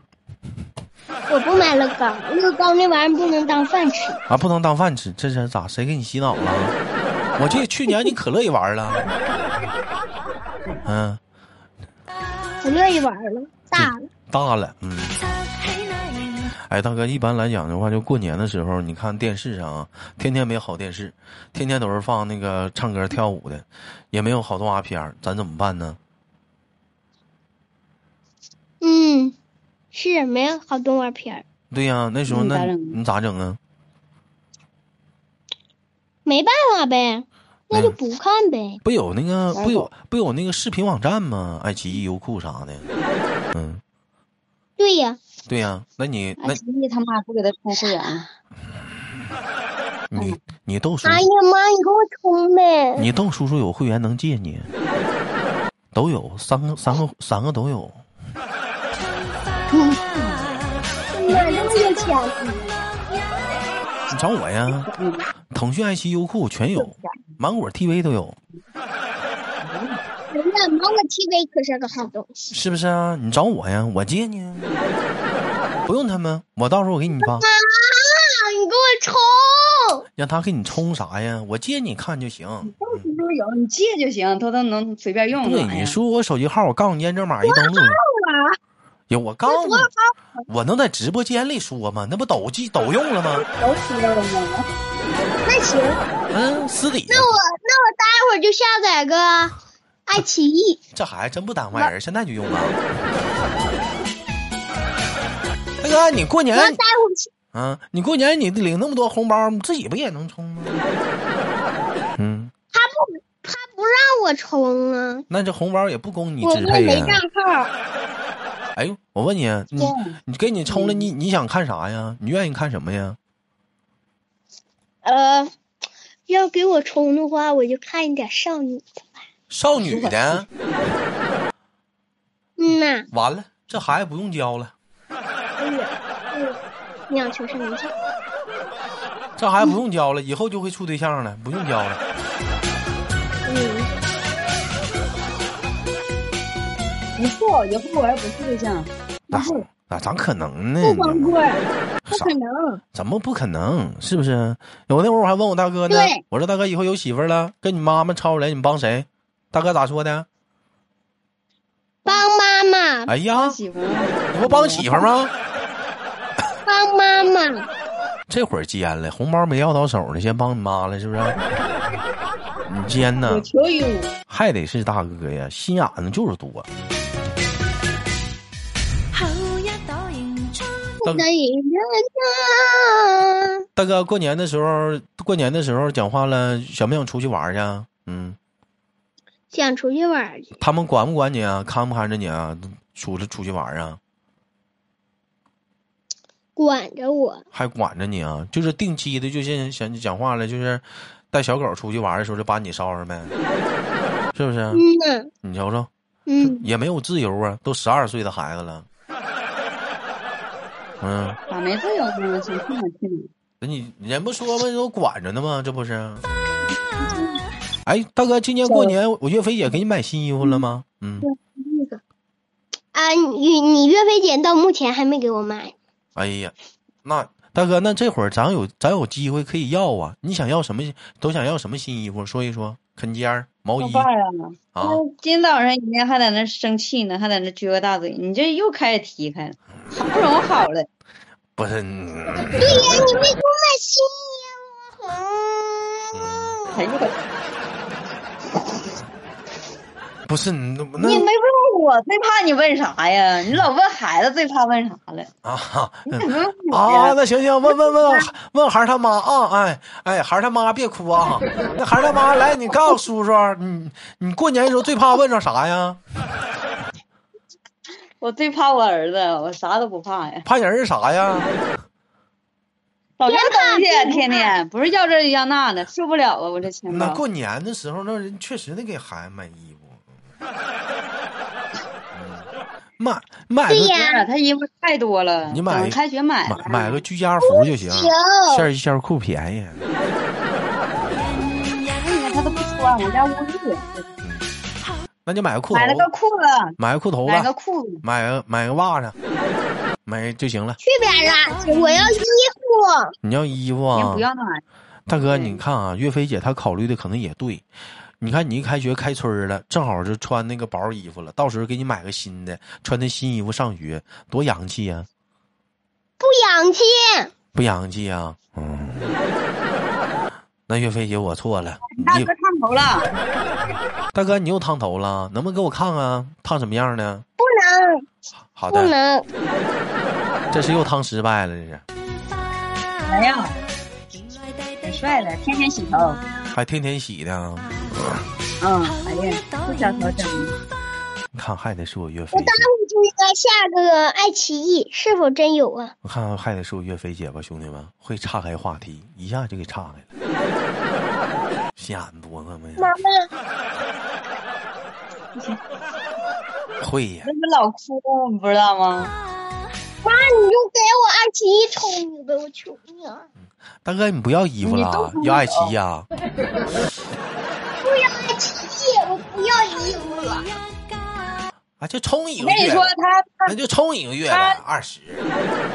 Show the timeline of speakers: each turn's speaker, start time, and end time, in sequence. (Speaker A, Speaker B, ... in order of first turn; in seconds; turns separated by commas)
Speaker A: 1.3-4.2, Speaker B: 4.3-6.7, Speaker B: 7.4-9.1, Speaker B: 10.8-11.2, Speaker A: 12.6-14.1, Speaker B: 13.8-15.2, Speaker B: 16.7-26.0, Speaker A: 28.8-29.3, Speaker A: 29.9-31.4, Speaker B: 31.7-33.6, Speaker C: 32.3-33.0, Speaker A: 36.2-38.8, Speaker B: 37.7-38.0, Speaker B: 38.8-42.9, Speaker C: 39.5-39.9, Speaker B: 43.5-43.8, Speaker A: 44.8-45.2, Speaker B: 45.5-46.6, Speaker C: 46.4-48.2, Speaker A: 47.8-48.2, Speaker B: 50.1-51.2, Speaker A: 51.0-53.1, Speaker B: 53.0-54.7, Speaker B: 55.9-58.0, Speaker C: 59.7-60.5, Speaker A: 61.1-62.6, Speaker C: 61.3-62.1, Speaker B: 64.1-64.9, Speaker C: 64.9-65.3, Speaker B: 65.5-68.4, Speaker C: 66.8-67.2, Speaker C: 69.6-70.0, Speaker A: 70.3-72.5, Speaker B: 72.5-74.7, Speaker B: 75.8-77.5, Speaker A: 77.2-80.0, Speaker B: 80.2-82.8, Speaker C: 82.7-86.0, Speaker B: 85.4-88.0, Speaker A: 87.4-88.5, Speaker B: 89.1-89.9, Speaker A: 89.5-90.1, Speaker B: 90.5-93.4, Speaker C: 93.6-94.6, Speaker A: 95.4-96.0, Speaker B: 96.3-97.3, Speaker A: 97.1-99.5, Speaker A: 100.1-100.8, Speaker B: 100.9-102.8, Speaker B: 105.8-106.8, Speaker A: 106.5-107.3, Speaker B: 107.5-110.8, Speaker B: 112.2-112.5, Speaker A: 112.7-115.2, Speaker B: 115.3-117.2, Speaker A: 116.4-117.7, Speaker B: 118.7-123.2, Speaker C: 119.8-121.1, Speaker A: 125.0-125.5, Speaker A: 126.3-129.1, Speaker B: 129.5-130.4, Speaker C: 129.8-130.4, Speaker A: 132.6-133.1, Speaker B: 133.1-134.7, Speaker A: 135.6-136.6, Speaker A: 137.1-137.9, Speaker B: 139.4-142.0, Speaker A: 143.4-143.9, Speaker C: 147.2-149.6, Speaker B: 149.3-151.4, Speaker A: 150.8-151.5, Speaker B: 152.1-152.3, Speaker C: 152.1-152.8, Speaker B: 152.9-160.3, Speaker A: 162.1-163.1, Speaker B: 163.1-163.6, Speaker C: 163.3-165.0, Speaker B: 164.3-165.3, Speaker A: 166.7-167.7, Speaker B: 168.3-171.4, Speaker B: 172.7-173.5, Speaker C: 173.1-174.1, Speaker B: 174.3-176.7, Speaker A: 181.0-183.6, Speaker B: 183.8-188.4, Speaker A: 189.5-190.5, Speaker B: 190.6-194.0, Speaker A: 196.6-197.4, Speaker B: 197.5-203.3, Speaker B: 204.3-204.8, Speaker A: 204.7-205.3, Speaker B: 205.4-205.9, Speaker A: 206.3-206.7, Speaker B: 206.4-208.8, Speaker B: 211.0-211.4, Speaker C: 211.5-213.3, Speaker B: 213.6-216.2, Speaker B: 217.8-221.3, Speaker C: 218.6-219.0, Speaker A: 221.2-222.0, Speaker A: 222.9-225.7, Speaker B: 226.2-226.5, Speaker B: 227.0-234.1, Speaker C: 233.8-240.9, Speaker B: 234.7-235.0, Speaker B: 241.6-243.1, Speaker A: 242.5-247.0, Speaker C: 242.6-243.0, Speaker B: 246.1-246.5, Speaker C: 246.7-247.1, Speaker B: 250.2-251.3, Speaker C: 251.0-255.3, Speaker B: 255.4-266.0, Speaker C: 256.1-257.2, Speaker C: 268.2-270.4, Speaker B: 270.4-271.5, Speaker C: 273.2-277.2, Speaker A: 273.3-274.5, Speaker B: 276.9-280.0, Speaker B: 282.1-282.5, Speaker B: 283.0-284.0, Speaker A: 283.7-284.2, Speaker C: 283.9-287.0, Speaker B: 285.5-289.9, Speaker A: 287.4-288.7, Speaker C: 291.8-294.1, Speaker B: 295.2-296.1, Speaker C: 295.7-298.0, Speaker B: 296.8-297.5, Speaker B: 298.0-299.1, Speaker B: 300.1-300.8, Speaker A: 300.8-303.1, Speaker B: 303.2-304.2, Speaker C: 303.9-305.6, Speaker B: 305.1-307.6, Speaker B: 308.2-315.1, Speaker A: 316.2-317.3, Speaker B: 317.5-319.1, Speaker B: 320.7-322.3, Speaker C: 321.9-323.1, Speaker B: 324.1-327.2, Speaker A: 327.4-328.0, Speaker B: 328.5-328.9, Speaker A: 328.7-329.2, Speaker B: 330.5-331.8, Speaker C: 333.0-333.6, Speaker C: 334.8-336.2, Speaker B: 336.5-338.2, Speaker C: 338.6-340.6, Speaker B: 341.3-342.7, Speaker A: 342.3-345.9, Speaker B: 346.0-350.1, Speaker B: 351.8-352.9, Speaker A: 352.8-353.3, Speaker B: 356.8-357.3, Speaker C: 357.2-359.1, Speaker A: 360.0-363.3, Speaker B: 363.8-366.1, Speaker C: 364.6-365.7, Speaker A: 367.8-370.6, Speaker B: 371.8-372.9, Speaker C: 372.4-373.5, Speaker B: 373.4-375.2, Speaker C: 374.2-374.6